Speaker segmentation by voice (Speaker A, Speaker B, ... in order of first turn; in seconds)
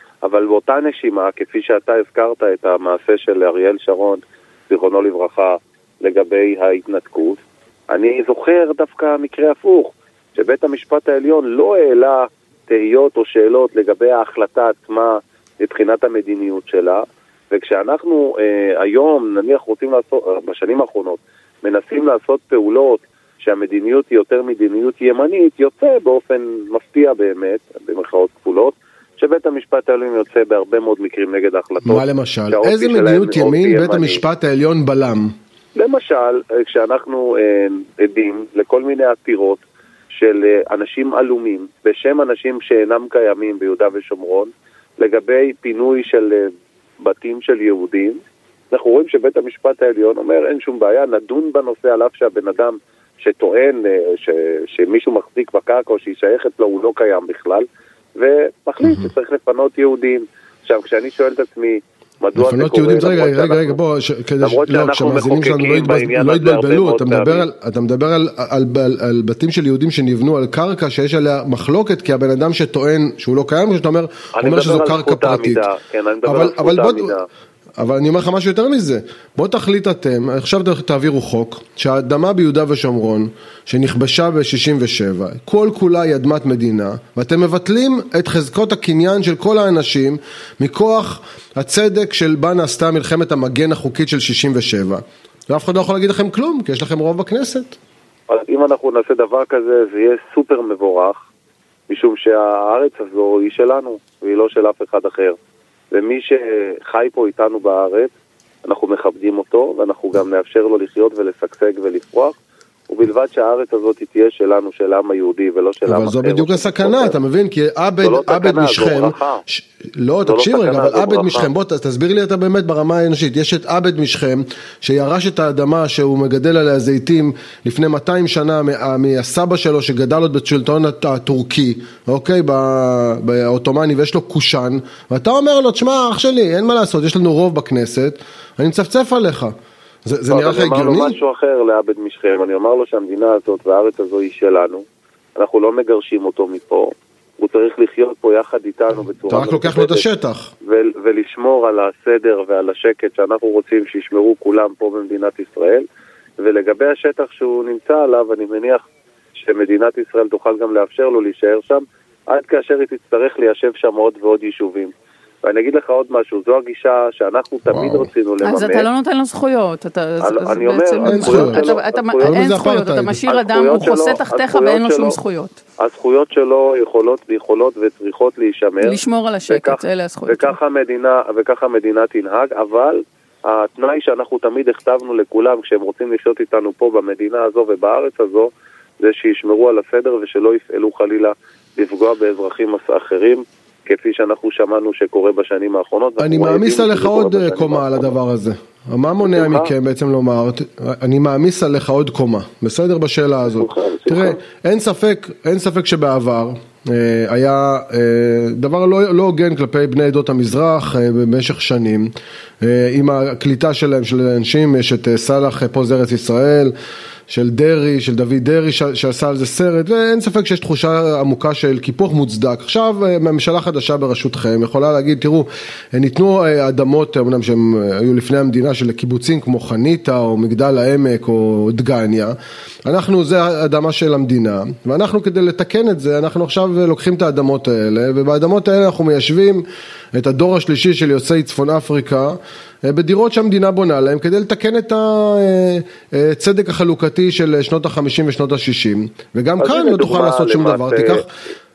Speaker A: 0.2-7.4, 7.9-34.2, 35.8-46.5, 47.0-48.2, 48.7-63.8, 64.4-67.5, 74.3-77.3, 98.3-101.2, 101.9-105.4, 105.9-108.1, 108.7-112.4, 112.9-117.2, 118.0-119.4, 120.2-121.5, 140.3-144.8, 145.4-150.1, 150.6-155.9, 156.4-158.8, 159.4-164.9, 165.4-168.9, 170.2-172.4, 173.3-175.2, 175.8-198.2, 199.2-199.7, 203.5-204.4, 249.6-251.2
Speaker B: 31.8-35.3, 62.4-75.6, 76.3-77.1, 77.8-97.8, 115.8-141.2, 149.3-150.5, 167.7-168.1, 171.1-173.2, 196.2-216.7, 217.3-251.3
Speaker C: 168.4-175.6, 178.8-180.6